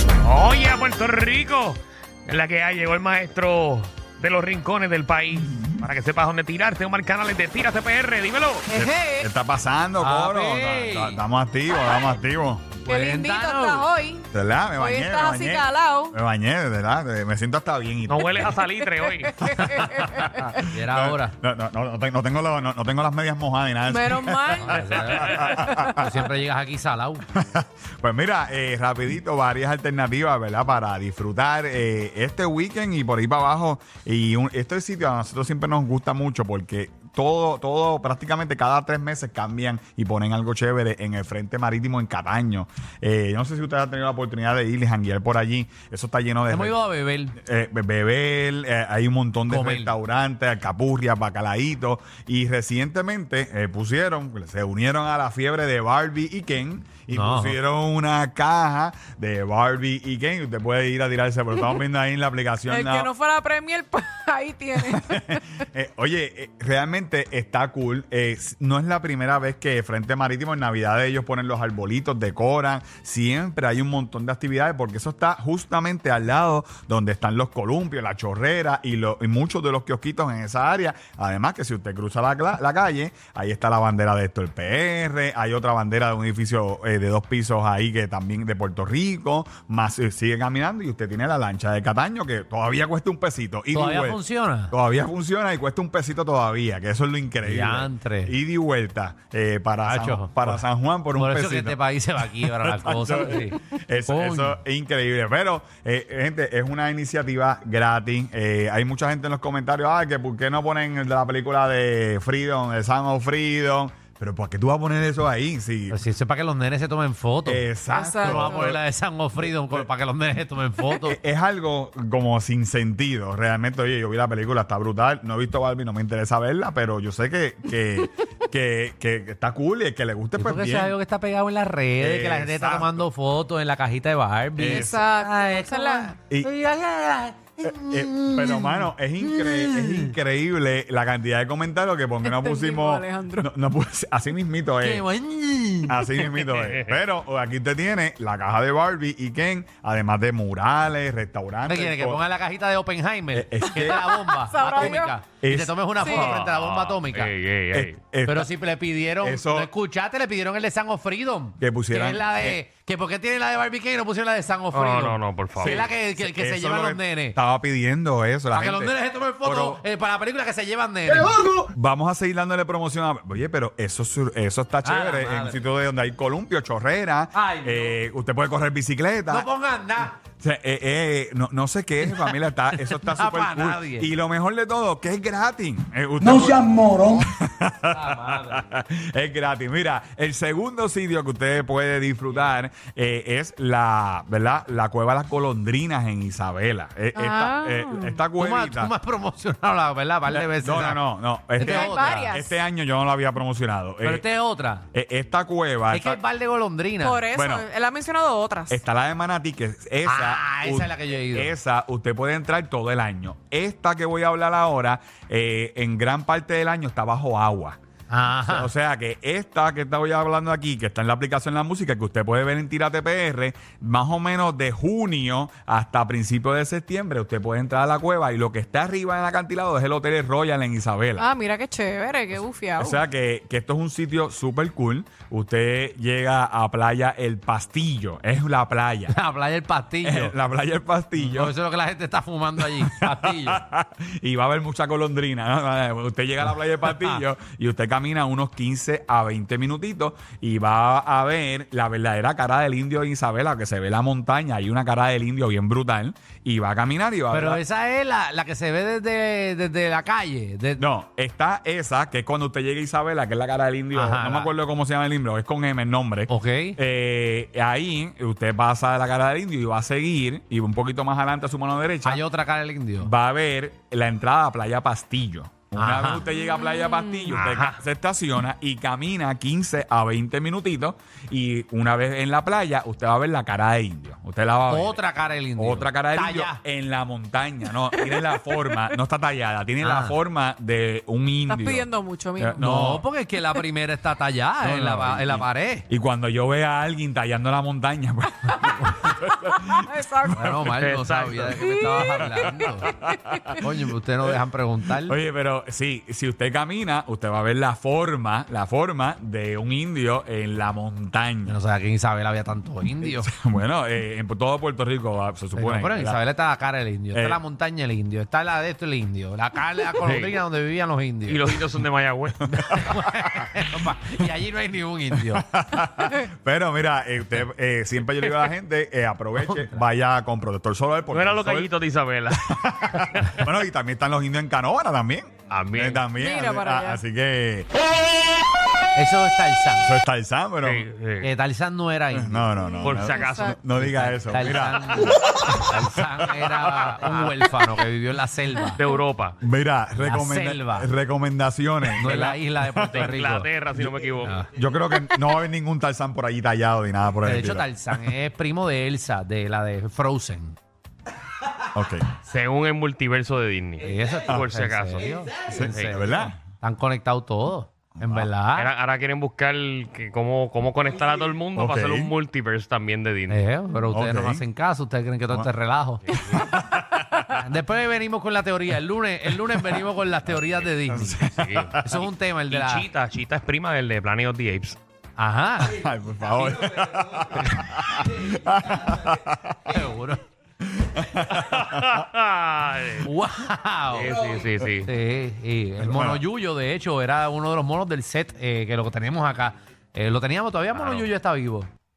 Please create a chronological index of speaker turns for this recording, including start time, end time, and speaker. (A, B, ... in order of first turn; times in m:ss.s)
0:00.2-0:08.7 A
0:08.7-0:09.3 B
0:08.7-0:12.8 C
0:10.0-0:11.2 D
0:12.8-0:16.2 B
0:12.9-0:13.9 D
0:14.3-0:18.6 C
0:18.1-0:19.4 A
0:19.2-0:20.6 B
0:19.6-0:26.1 C
0:20.6-0:21.4 D
0:23.9-0:26.1 B
0:24.6-0:25.4 D
0:26.0-0:27.2 D
0:27.3-0:46.8 C
0:46.5-0:47.4 D
0:47.4-1:03.1 C
0:49.5-0:50.0 D
0:57.1-0:57.6 D
1:02.7-1:05.4 B
1:04.8-1:41.8 C
1:33.7-1:34.8 D
1:37.4-1:38.4 D
1:39.8-1:44.6 D
1:42.4-1:56.0 C
1:55.9-2:01.2 D
1:57.5-1:58.8 C
1:57.9-1:58.7 B
1:59.4-1:59.8 C
2:01.0-2:11.0 C
2:10.4-2:20.2 D
2:12.0-2:13.1 C
2:14.6-2:15.0 C
2:14.6-2:16.2 B
2:17.6-2:25.1 C
2:22.2-2:23.5 B
2:24.8-2:26.3 D
2:25.9-2:32.2 C
2:26.5-2:26.9 A
2:31.6-2:37.4 D
2:33.3-2:34.2 C
2:33.7-2:35.2 B
2:34.8-2:35.8 C
2:36.0-2:36.4 B
2:36.1-2:38.0 A
2:37.7-2:38.5 C
2:38.2-2:47.4 D
2:39.2-2:39.7 C
2:41.6-2:42.6 C
2:44.7-2:45.8 A
2:45.6-2:49.8 C
2:48.5-2:51.6 D
2:51.3-2:59.5 C
2:54.8-2:55.6 D
2:57.4-2:58.0 D
2:59.3-3:00.2 D
3:00.4-3:18.9 C
3:02.0-3:04.1 D
3:17.2-3:18.2 B
3:18.3-3:22.4 D
3:20.3-3:24.3 C
3:21.6-3:22.6 B
3:24.0-3:24.9 D
3:24.9-3:26.2 C
3:25.9-3:27.3 D
3:27.0-3:28.8 B
3:27.3-3:27.7 C
3:28.7-3:37.8 C
3:30.0-3:31.6 D
3:38.1-3:38.7 D
3:38.5-3:51.3 C
3:51.2-3:53.0 B
3:52.8-3:59.2 C
3:59.1-4:00.4 D
4:00.0-4:01.5 C
4:01.1-4:03.6 D
4:02.6-4:17.6 C
4:06.8-4:07.2 D
4:17.3-4:20.9 D
4:20.8-4:32.2 C
4:23.9-4:24.5 D
4:26.3-4:26.8 D
4:32.0-4:33.1 D
4:33.0-4:45.0 C
4:35.7-4:36.2 D
4:36.4-4:37.4 B
4:37.3-4:37.8 A
4:44.7-4:46.6 D
4:45.6-4:53.1 C
4:49.8-4:50.2 D
4:51.5-4:52.7 B
4:52.6-4:55.8 D
4:54.6-5:00.7 C
4:59.7-5:00.4 B
5:00.3-5:02.9 D
5:00.6-5:01.6 A
5:01.7-5:02.5 B
5:02.1-5:03.6 C
5:03.3-5:03.6 B
5:03.6-5:05.2 D
5:05.0-5:11.6 C
5:11.5-5:13.3 D
5:13.0-5:16.2 C
5:15.5-5:21.7 D
5:17.1-5:17.4 C
5:20.0-5:20.4 A
5:21.3-5:22.9 A
5:22.5-5:25.5 D
5:22.9-5:23.4 C
5:25.3-5:31.7 C
5:29.4-5:29.8 D
5:31.1-5:33.4 A
5:32.3-5:37.7 C
5:35.5-5:36.1 A
5:36.2-5:37.0 B
5:39.0-5:40.0 D
5:39.8-5:40.9 C
5:40.6-5:41.3 A
5:41.2-5:42.5 D
5:42.1-5:46.9 C
5:42.6-5:43.7 B
5:42.8-5:43.5 A
5:43.7-5:48.8 D
5:48.7-5:49.4 A
5:49.4-5:53.1 C
5:50.0-5:50.9 D
5:51.8-5:53.5 D
5:52.9-5:54.4 A
5:54.2-5:54.5 D
5:54.6-5:58.1 C
5:57.2-6:00.6 D
6:01.7-6:02.1 C
6:02.2-6:06.0 A
6:03.8-6:08.7 D
6:05.5-6:06.4 C
6:08.0-6:08.3 C
6:08.6-6:13.4 A
6:11.6-6:12.1 C
6:13.3-6:16.0 D
6:13.9-6:14.5 C
6:16.0-6:16.6 A
6:16.1-6:17.5 C
6:17.3-6:22.9 D
6:19.4-6:19.8 C
6:20.9-6:22.0 C
6:21.3-6:21.8 A
6:22.5-6:24.8 A
6:25.2-6:25.8 D
6:25.8-6:29.6 C
6:29.7-6:30.2 D
6:30.6-6:32.1 C
6:31.4-6:33.1 A
6:33.0-6:34.2 D
6:33.9-6:34.9 A
6:34.8-6:41.7 D
6:35.8-6:36.2 C
6:40.7-6:41.1 A